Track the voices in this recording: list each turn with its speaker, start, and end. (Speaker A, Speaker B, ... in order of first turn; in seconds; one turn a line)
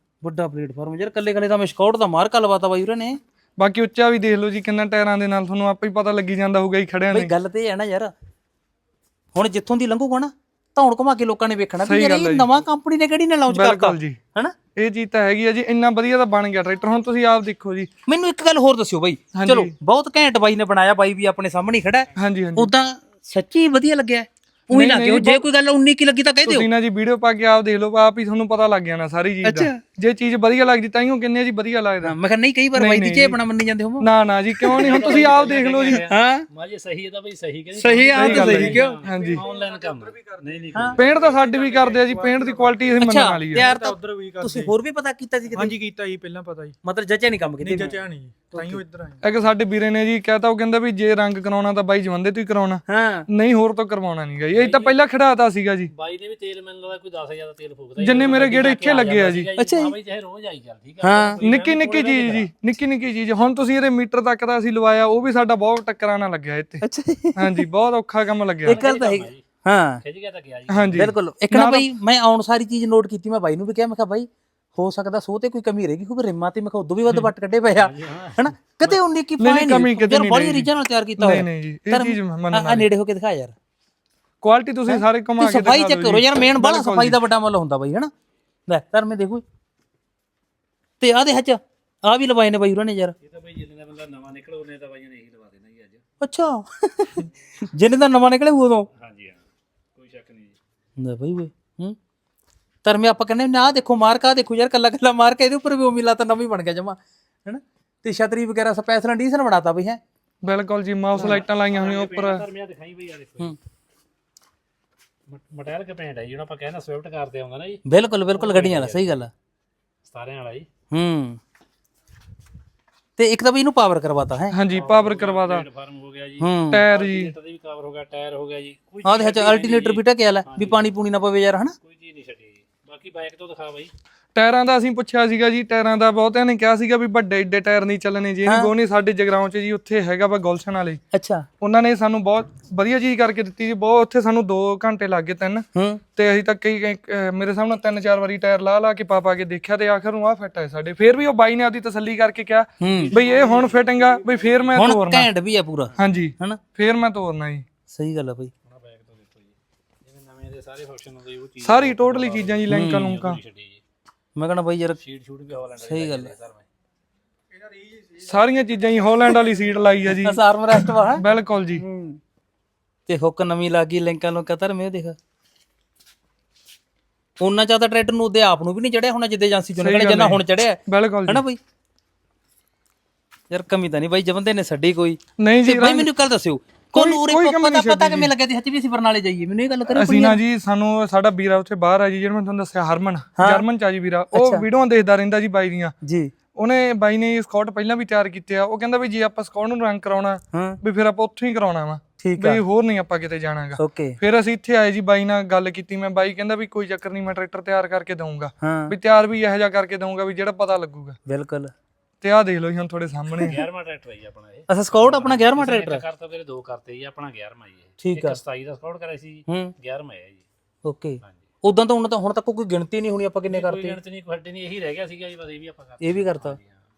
Speaker A: 0.2-3.2
Speaker B: 3.6-7.3
Speaker A: 7.1-8.1
Speaker A: 9.3-14.6
Speaker B: 11.8-12.7
Speaker B: 13.5-14.2
Speaker B: 14.8-17.9
Speaker A: 18.1-26.7
Speaker B: 19.4-19.7
Speaker B: 22.1-22.7
Speaker B: 24.7-25.4
Speaker B: 26.4-32.1
Speaker A: 29.4-29.8
Speaker A: 32.0-35.2
Speaker B: 32.8-33.4
Speaker B: 34.0-36.0
Speaker C: 34.8-41.4
Speaker A: 36.0-36.5
Speaker A: 37.8-39.0
Speaker B: 38.1-39.5
Speaker D: 39.0-43.0
Speaker B: 41.0-43.7
Speaker A: 43.0-45.8
Speaker D: 43.5-44.7
Speaker D: 45.5-46.8
Speaker A: 46.8-48.0
Speaker D: 47.6-49.2
Speaker A: 48.5-48.8
Speaker B: 49.2-55.9
Speaker A: 52.9-53.3
Speaker C: 54.5-55.0
Speaker C: 55.9-62.5
Speaker B: 58.0-59.5
Speaker A: 59.6-60.0
Speaker A: 61.0-61.4
Speaker B: 61.4-66.8
Speaker A: 66.8-67.7
Speaker B: 67.3-68.8
Speaker A: 68.7-70.0
Speaker C: 68.7-69.5
Speaker C: 70.0-71.0
Speaker B: 70.7-71.9
Speaker A: 71.0-83.5
Speaker C: 77.1-78.5
Speaker B: 79.4-82.9
Speaker B: 84.4-87.2
Speaker A: 84.9-88.1
Speaker A: 88.7-89.4
Speaker A: 91.0-93.2
Speaker C: 93.2-96.0
Speaker A: 96.2-98.9
Speaker C: 99.0-100.6
Speaker A: 101.0-102.0
Speaker A: 102.8-110.0
Speaker B: 110.4-112.5
Speaker C: 111.2-113.6
Speaker C: 115.3-117.8
Speaker A: 117.9-119.3
Speaker C: 118.3-119.3
Speaker C: 120.0-120.7
Speaker A: 120.9-121.4
Speaker A: 123.2-124.6
Speaker B: 124.5-125.7
Speaker C: 124.7-130.9
Speaker A: 126.4-126.8
Speaker B: 126.7-127.3
Speaker A: 129.0-131.7
Speaker C: 131.8-133.9
Speaker B: 134.3-141.0
Speaker A: 138.4-138.7
Speaker A: 141.1-141.5
Speaker B: 141.6-145.7
Speaker A: 145.8-146.0
Speaker B: 146.2-155.3
Speaker A: 152.8-153.2
Speaker A: 154.7-156.6
Speaker B: 156.0-157.7
Speaker A: 157.9-158.5
Speaker C: 158.7-163.8
Speaker B: 161.6-163.4
Speaker A: 162.7-163.1
Speaker A: 164.4-165.0
Speaker C: 165.0-166.7
Speaker A: 165.8-166.3
Speaker D: 167.7-168.3
Speaker B: 168.2-170.4
Speaker A: 170.2-171.2
Speaker B: 171.0-171.8
Speaker A: 171.8-172.2
Speaker A: 173.1-175.2
Speaker A: 177.4-181.6
Speaker B: 179.8-181.4
Speaker A: 183.5-190.4
Speaker B: 185.4-186.1
Speaker B: 186.9-188.3
Speaker B: 189.9-195.9
Speaker A: 193.4-193.7
Speaker A: 194.3-194.7
Speaker A: 196.0-196.3
Speaker B: 196.6-211.2
Speaker A: 200.5-200.8
Speaker A: 202.2-202.6
Speaker A: 203.8-204.2
Speaker A: 208.6-208.9
Speaker A: 211.3-211.7
Speaker B: 212.2-213.6
Speaker C: 213.4-220.4
Speaker A: 214.7-216.0
Speaker A: 218.0-218.4
Speaker A: 219.5-219.7
Speaker A: 220.8-224.0
Speaker C: 223.5-226.8
Speaker A: 226.0-226.6